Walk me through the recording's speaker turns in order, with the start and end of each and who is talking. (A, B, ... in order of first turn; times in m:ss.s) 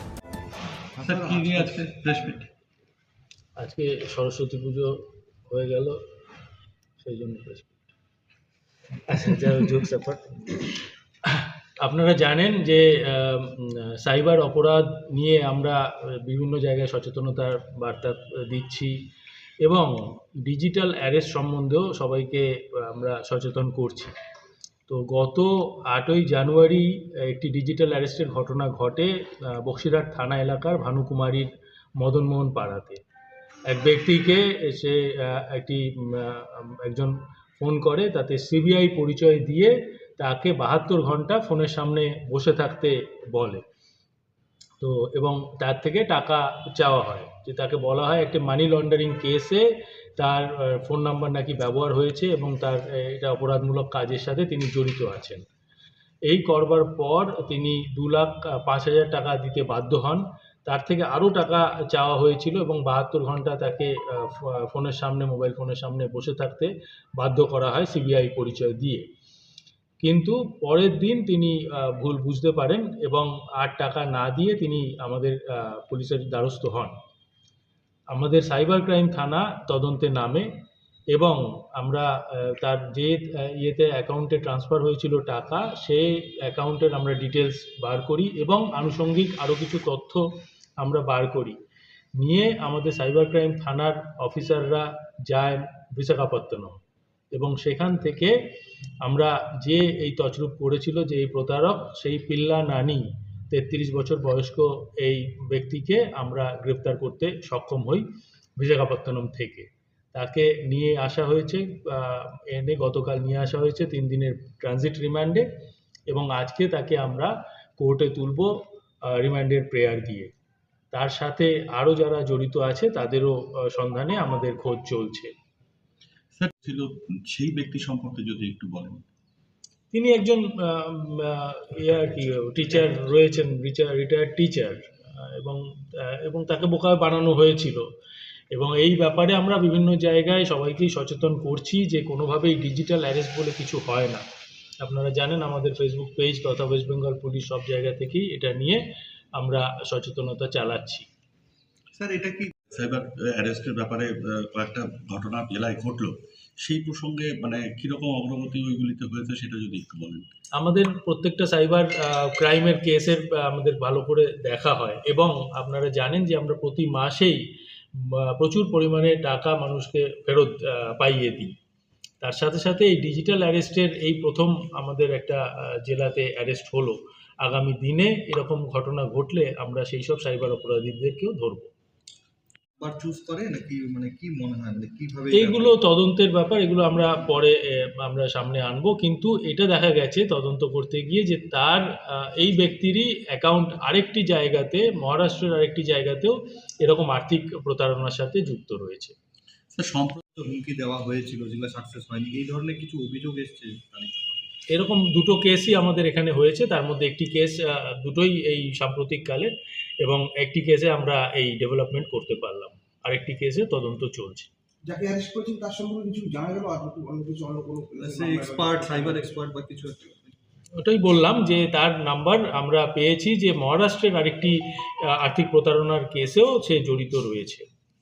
0:01.0-0:01.9 A
0:01.0-0:02.5 B
0:03.6-0:05.0 C
0:05.5-0:06.0 C
0:07.0-0:07.7 C
0:09.1-0:10.7 C
0:11.3-0:18.9 C
0:19.6-0:24.1 C
0:24.9-0:31.5 C
0:32.0-0:33.0 C
0:33.7-0:43.6 C
0:44.8-0:49.6 C
0:50.2-0:55.4 C
0:56.3-1:09.0 C
1:10.0-1:16.9 C
1:18.1-1:20.5 C
1:21.1-1:30.2 C
1:30.8-1:31.6 C
1:32.2-1:36.8 C
1:37.3-1:38.3 C
1:39.0-1:48.0 C
1:48.6-1:55.4 C
1:56.1-1:58.5 C
1:59.1-2:00.3 C
2:00.9-2:05.3 C
2:06.4-2:09.0 B
2:09.9-2:17.8 C
2:11.9-2:12.9 B
2:18.5-2:24.2 C
2:24.8-2:28.8 C
2:29.4-2:31.1 C
2:31.9-2:32.5 A
2:32.7-2:40.3 B
2:40.6-2:47.4 C
2:48.1-2:51.5 C
2:52.2-3:01.7 C
3:02.8-3:05.8 A
3:05.3-3:19.1 C
3:19.8-3:24.5 A
3:24.7-3:34.5 C
3:34.8-3:39.4 D
3:38.0-3:40.3 A
3:40.8-3:44.5 C
3:45.2-3:47.6 C